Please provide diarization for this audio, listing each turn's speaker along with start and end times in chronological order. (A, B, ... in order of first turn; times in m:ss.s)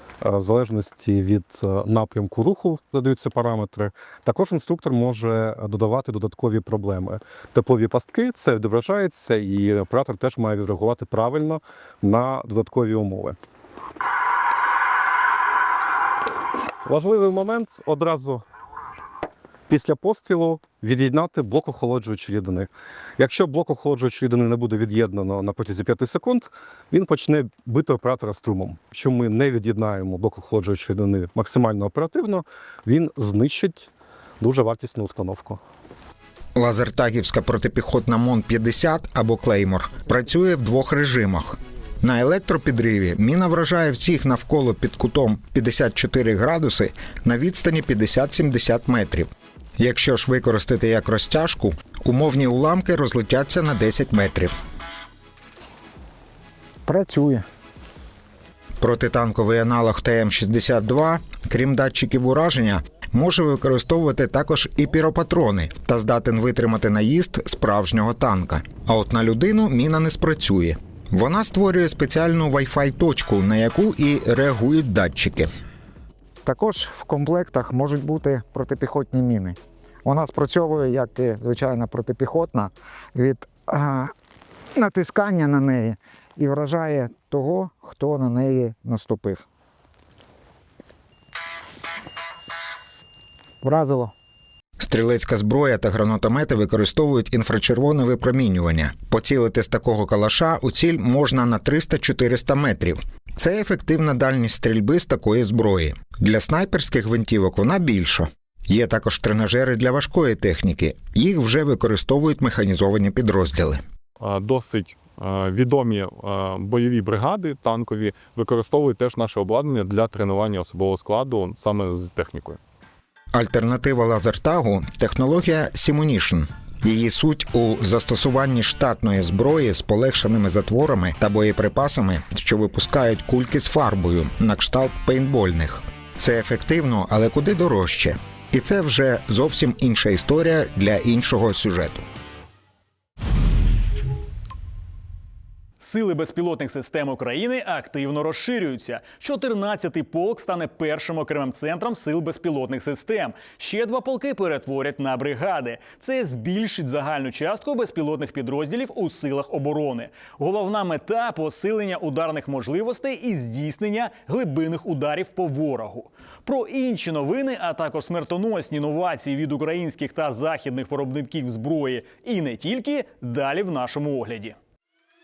0:00.2-0:13.4 A
0:16.8-0:18.4 A
0:19.7-0:33.9 A
0:34.4-0:35.6 A
0:36.6-0:54.5 B
0:56.9-0:57.4 C
0:58.8-1:15.5 B
1:16.4-1:24.1 C
1:24.8-1:29.4 C
1:33.6-1:34.1 C
1:34.8-1:53.8 B
1:54.2-2:02.6 D
2:03.4-2:22.0 B
2:25.8-2:54.6 E